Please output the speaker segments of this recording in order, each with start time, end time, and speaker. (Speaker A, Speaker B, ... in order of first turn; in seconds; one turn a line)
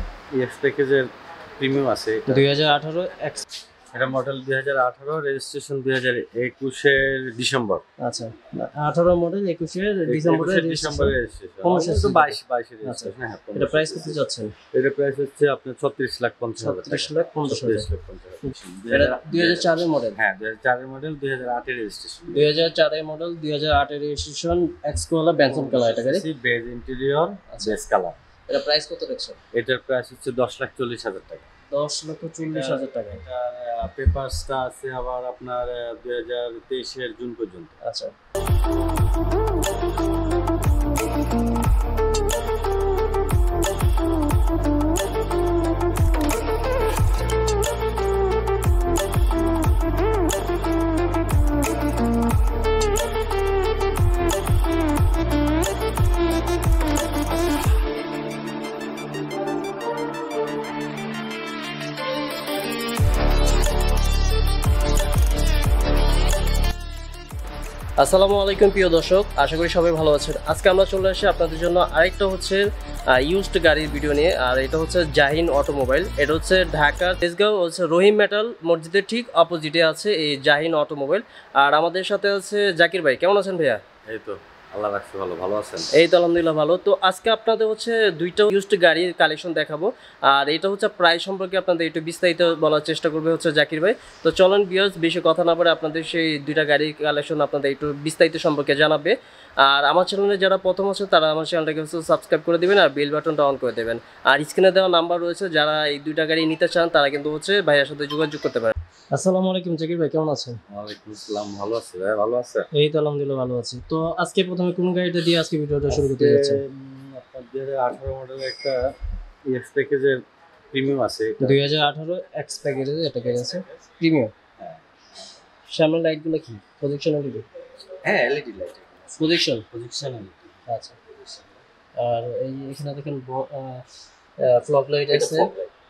Speaker A: 0.3-2.5
Speaker B: 2.3-3.4
Speaker A: 3.9-7.8
Speaker B: 8.0-14.5
Speaker A: 10.1-14.2
Speaker A: 14.7-22.5
Speaker B: 16.6-17.9
Speaker B: 18.9-20.2
Speaker B: 22.3-26.2
Speaker A: 25.4-28.2
Speaker B: 27.5-27.8
Speaker B: 28.5-29.4
Speaker A: 29.5-31.4
Speaker B: 31.7-33.2
Speaker A: 32.4-37.7
Speaker B: 37.8-38.1
Speaker B: 68.0-83.8
Speaker A: 84.0-85.9
Speaker B: 85.9-110.6
Speaker A: 110.7-112.7
Speaker B: 112.7-116.6
Speaker A: 115.9-118.9
Speaker A: 119.5-121.6
Speaker B: 121.4-124.3
Speaker A: 123.1-123.8
Speaker A: 124.6-125.3
Speaker B: 125.7-127.5
Speaker A: 128.0-131.6
Speaker B: 129.2-129.7
Speaker B: 130.7-130.9
Speaker B: 132.0-133.8
Speaker B: 134.4-135.5
Speaker A: 135.1-135.7